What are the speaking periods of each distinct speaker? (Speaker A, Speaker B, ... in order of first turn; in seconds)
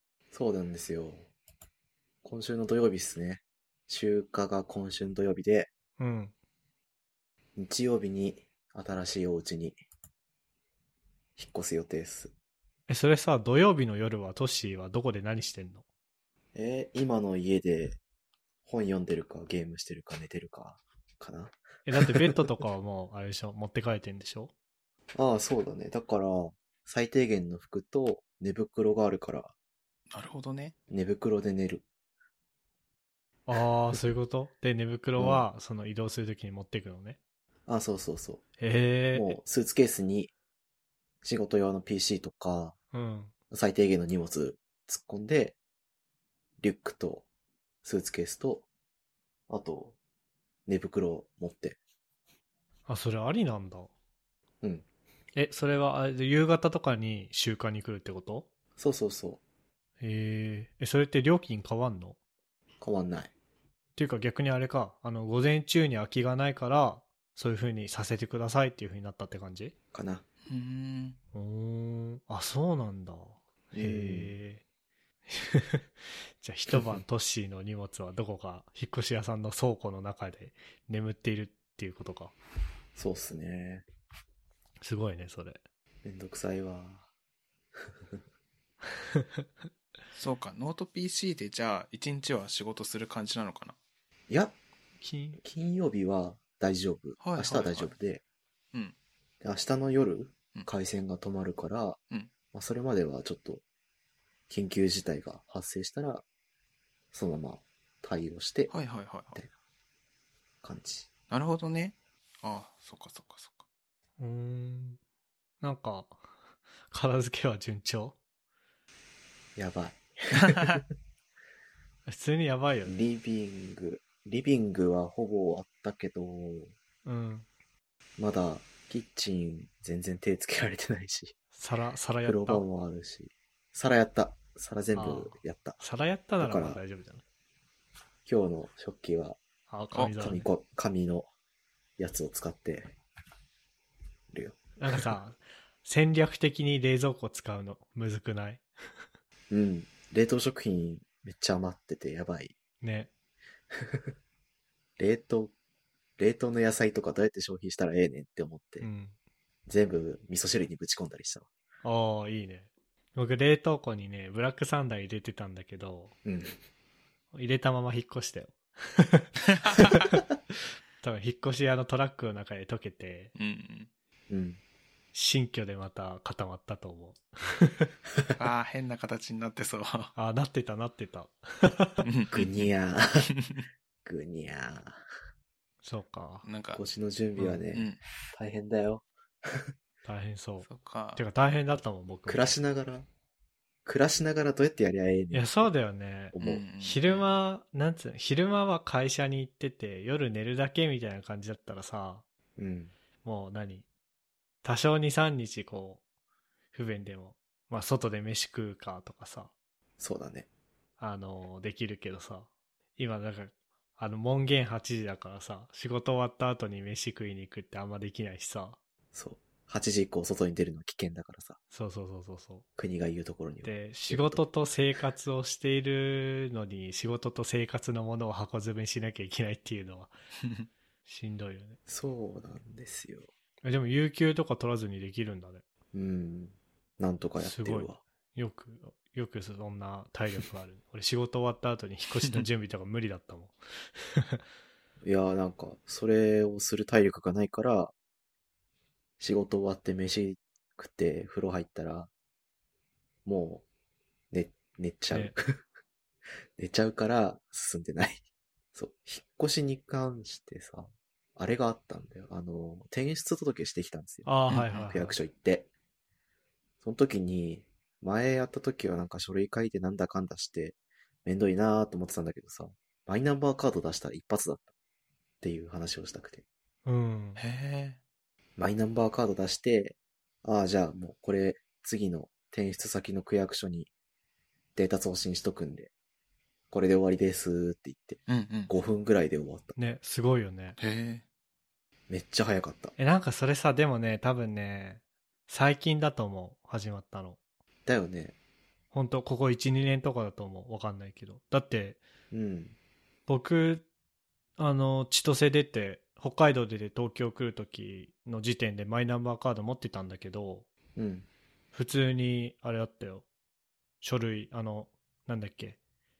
Speaker A: 0.3-1.3, 2.2-5.7, 7.5-9.8, 11.4-12.3, 16.6-18.0, 18.6-22.6, 25.1-29.5, 30.9-31.9, 35.2-35.5, 37.7-38.4, 39.1-40.3, 41.2-42.8, 43.5-45.6, 46.6-47.2, 47.8-48.7, 49.5-50.0, 50.7-51.8, 58.8-59.4, 62.8-63.3, 69.9-70.2, 73.7-74.3, 76.7-77.0, 82.9-83.8, 86.0-87.1, 94.3-94.5, 95.4-98.2, 99.4-102.0, 102.5-103.6, 104.5-106.2, 107.1-108.7, 110.6-111.1, 119.5-120.8, 122.8-126.7, 128.2-131.3, 132.2-135.8, 136.4-136.8, 138.2-139.4, 140.1-141.3, 142.0-142.9, 144.3-145.0, 149.5-152.6, 153.8-154.1, 155.0-155.5, 156.2-158.9, 159.7-161.5, 166.2-166.5, 174.3-174.6, 182.3-183.2, 184.0-185.0, 186.7-189.6, 192.3-193.1, 193.8-195.7, 196.3-196.7, 202.6-202.9, 210.0-210.5, 219.1-221.6, 222.8-224.4, 231.9-233.3, 235.9-238.0, 245.0-247.9, 249.2-252.1, 253.2-253.7, 254.3-255.6, 256.6-265.7, 266.8-274.7, 275.4-276.4, 278.6-283.9, 284.8-285.9, 286.7-289.8, 292.1-293.0, 297.9-298.4, 302.3-302.8, 311.0-311.3
Speaker B: 6.0-6.3, 12.9-15.8, 21.9-24.5, 33.5-37.2, 38.6-39.4, 42.9-43.3, 52.9-53.9, 55.3-58.5, 60.0-62.2, 64.0-69.7, 71.3-74.6, 75.3-75.9, 76.4-82.3, 84.8-85.6, 89.1-89.4, 95.0-95.4, 114.2-115.0, 115.6-116.2, 116.9-118.2, 122.1-123.0, 127.0-127.5, 131.6-132.7, 134.9-137.2, 139.7-140.5, 144.8-148.6, 152.8-153.1, 158.8-159.1, 161.8-166.2, 167.3-170.2, 171.0-173.3, 175.1-177.9, 180.2-182.0, 185.8-186.4, 190.0-192.5, 195.3-202.2, 203.2-203.8, 204.6-206.0, 206.7-209.5, 211.0-218.8, 221.7-222.7, 223.6-230.1, 231.1-231.8, 233.6-235.6, 237.4-243.6, 244.1-244.4, 255.1-255.3, 264.3-265.2, 276.9-277.4, 289.8-290.8, 293.0-297.4, 298.9-302.0, 303.3-303.9, 304.6-310.7, 311.7-313.3, 314.0-315.8
Speaker C: 30.1-30.8, 70.5-71.2, 90.1-93.8, 97.2-97.9, 108.7-109.4, 111.3-113.6, 173.3-173.9, 178.3-180.1, 182.0-182.5, 186.4-186.8, 187.4-188.0, 190.6-191.2, 196.4-197.3, 264.5-264.8, 277.4-278.0, 288.3-288.7, 290.8-291.2